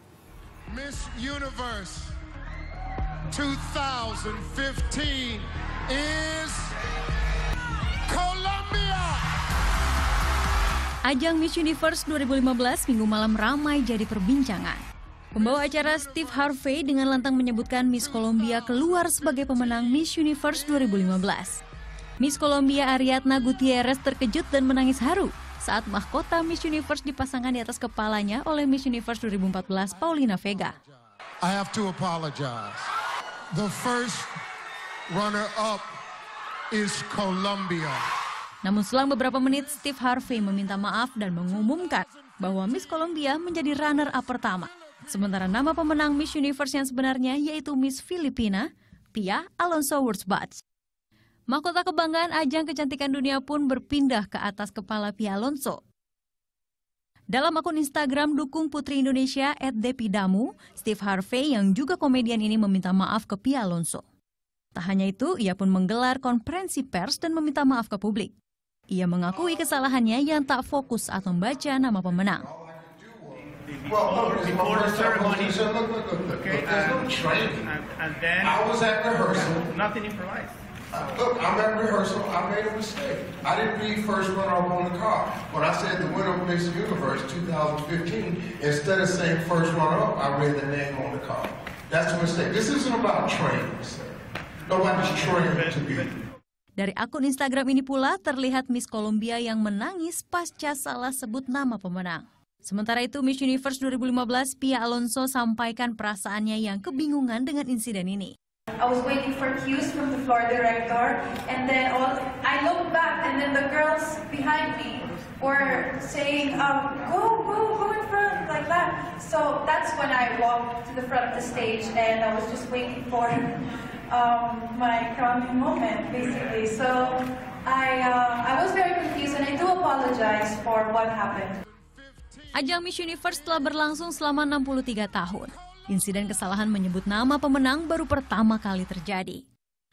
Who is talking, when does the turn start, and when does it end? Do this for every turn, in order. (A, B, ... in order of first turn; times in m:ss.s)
0:00.7-0:02.2 A
0:03.3-0:06.8 A
0:08.1-0:09.3 A
0:11.0-0:14.8 B
0:15.3-0:16.7 A
0:15.3-0:21.6 B
0:17.8-0:21.3 A
0:22.2-0:30.8 B
0:30.0-0:32.9 A
0:33.5-0:34.3 A
0:35.1-0:35.9 A
0:36.7-0:38.0 A
0:38.6-0:50.6 B
0:51.5-0:55.8 B
0:57.3-1:04.0 B
1:04.8-1:08.3 B
1:08.9-1:12.4 B
1:12.4-1:17.7 C
1:13.7-1:15.7 D
1:16.3-1:18.7 D
1:18.4-1:19.7 C
1:19.3-1:20.6 D
1:20.9-1:34.1 C
1:34.7-1:36.1 C
1:34.8-1:35.8 D
1:36.8-1:48.3 B
1:48.8-2:11.6 E
2:11.7-2:12.8 A
2:12.5-2:19.4 B